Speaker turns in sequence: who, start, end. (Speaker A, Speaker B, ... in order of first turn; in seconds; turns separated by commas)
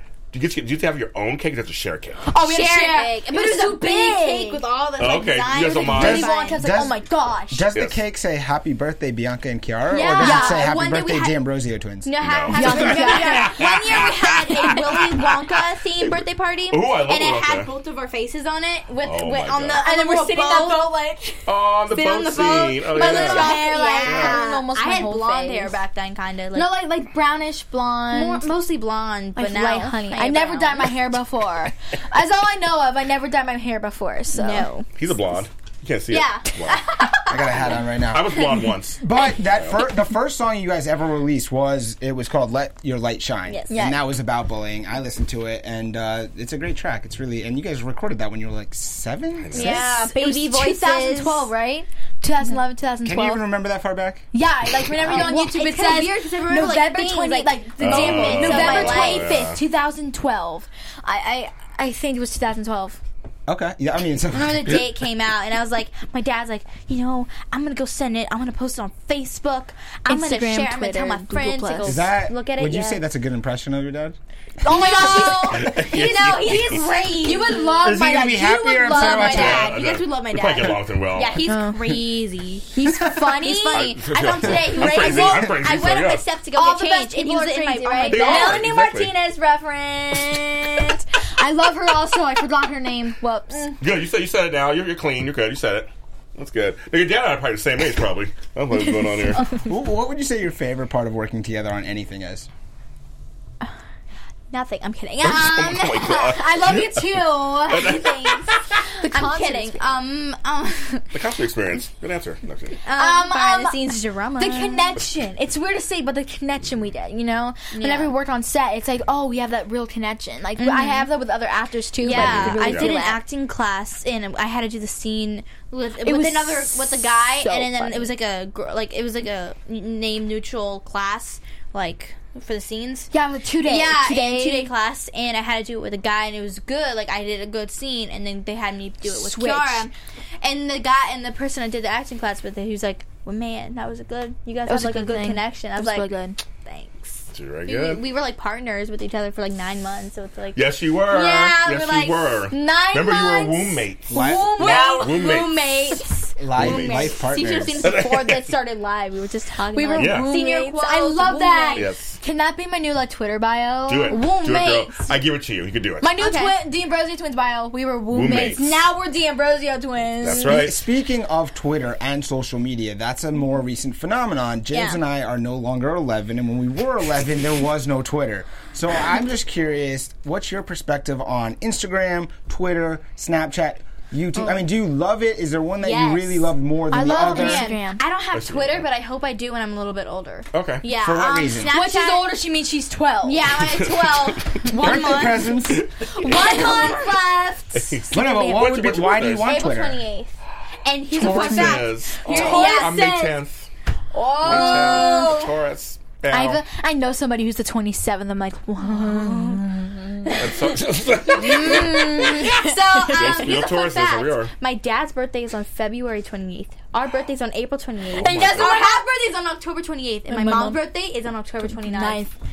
Speaker A: 0.3-2.2, Speaker B: 2.2-4.6, Speaker C: 2.4-6.7, Speaker A: 5.0-6.3, Speaker B: 5.9-7.7, Speaker D: 5.9-7.0, Speaker D: 7.5-12.2, Speaker A: 7.8-8.0, Speaker C: 9.9-11.3, Speaker B: 10.0-10.9, Speaker C: 12.0-21.1, Speaker A: 12.2-15.6, Speaker B: 12.5-13.7, Speaker A: 16.7-17.7, Speaker A: 19.0-19.8, Speaker B: 19.8-21.4, Speaker A: 21.5-24.4, Speaker C: 21.9-26.8, Speaker B: 22.9-25.8, Speaker B: 26.5-28.5, Speaker C: 28.1-31.0, Speaker B: 29.4-34.7, Speaker C: 34.3-34.9, Speaker A: 35.0-39.0, Speaker C: 36.1-37.6, Speaker D: 37.3-38.5, Speaker D: 39.0-49.8, Speaker C: 43.5-43.8, Speaker B: 43.7-44.0, Speaker A: 49.4-49.9, Speaker C: 49.5-51.5, Speaker B: 49.5-53.5, Speaker D: 53.0-54.3, Speaker B: 54.3-63.0, Speaker C: 55.0-59.5, Speaker A: 57.8-59.6, Speaker D: 63.5-64.9, Speaker C: 64.3-73.0, Speaker B: 70.1-72.0, Speaker D: 71.8-75.8, Speaker B: 74.6-75.6, Speaker C: 74.6-78.0, Speaker A: 75.3-76.9, Speaker B: 77.2-79.7, Speaker D: 77.8-79.8, Speaker C: 78.9-91.0, Speaker A: 79.3-81.5, Speaker B: 81.5-81.8, Speaker B: 82.7-83.9, Speaker A: 83.7-86.3, Speaker B: 84.8-85.5, Speaker B: 86.5-88.7, Speaker A: 88.1-89.1, Speaker B: 91.4-93.8, Speaker A: 93.8-99.4, Speaker D: 99.7-102.5, Speaker C: 104.5-106.3, Speaker A: 105.2-108.8, Speaker B: 106.0-108.1, Speaker C: 107.7-111.1, Speaker B: 109.0-109.9, Speaker A: 111.1-112.8, Speaker C: 112.8-115.0, Speaker B: 113.0-123.2, Speaker C: 117.7-118.2, Speaker C: 120.6-121.1, Speaker C: 122.0-133.1, Speaker A: 122.1-123.0, Speaker B: 126.0-128.1, Speaker B: 133.1-134.7, Speaker C: 133.6-152.4, Speaker B: 139.1-139.9, Speaker B: 144.7-146.4, Speaker A: 147.3-148.0, Speaker A: 150.6-156.0, Speaker B: 152.5-155.3, Speaker D: 154.1-154.7, Speaker C: 154.1-161.9, Speaker D: 156.4-158.0, Speaker A: 156.5-157.1, Speaker A: 157.8-158.6, Speaker B: 159.7-164.5, Speaker A: 160.0-160.4, Speaker A: 161.8-162.2, Speaker A: 163.9-166.1, Speaker C: 164.1-165.1, Speaker B: 166.0-170.7, Speaker C: 166.2-166.6, Speaker A: 168.1-168.8, Speaker A: 170.2-170.8, Speaker D: 170.3-187.7, Speaker C: 174.7-175.0, Speaker C: 185.8-192.3, Speaker B: 186.9-188.0, Speaker A: 188.3-188.9, Speaker A: 190.5-190.8, Speaker D: 190.8-191.7, Speaker B: 191.7-193.4, Speaker C: 193.2-200.3, Speaker A: 193.7-194.6, Speaker B: 194.7-195.5, Speaker D: 194.7-195.9, Speaker A: 195.3-196.9, Speaker B: 196.2-197.1, Speaker A: 197.7-199.6, Speaker D: 198.1-200.0, Speaker C: 200.8-203.3, Speaker B: 201.1-203.1, Speaker A: 201.2-203.7, Speaker C: 204.1-205.5, Speaker B: 204.4-205.3, Speaker A: 204.4-206.6, Speaker B: 206.3-210.3, Speaker C: 208.8-209.7, Speaker C: 210.2-222.3, Speaker A: 210.3-214.5, Speaker B: 211.3-213.6, Speaker A: 218.1-218.8, Speaker B: 218.2-219.1, Speaker B: 220.3-220.8, Speaker B: 221.7-222.4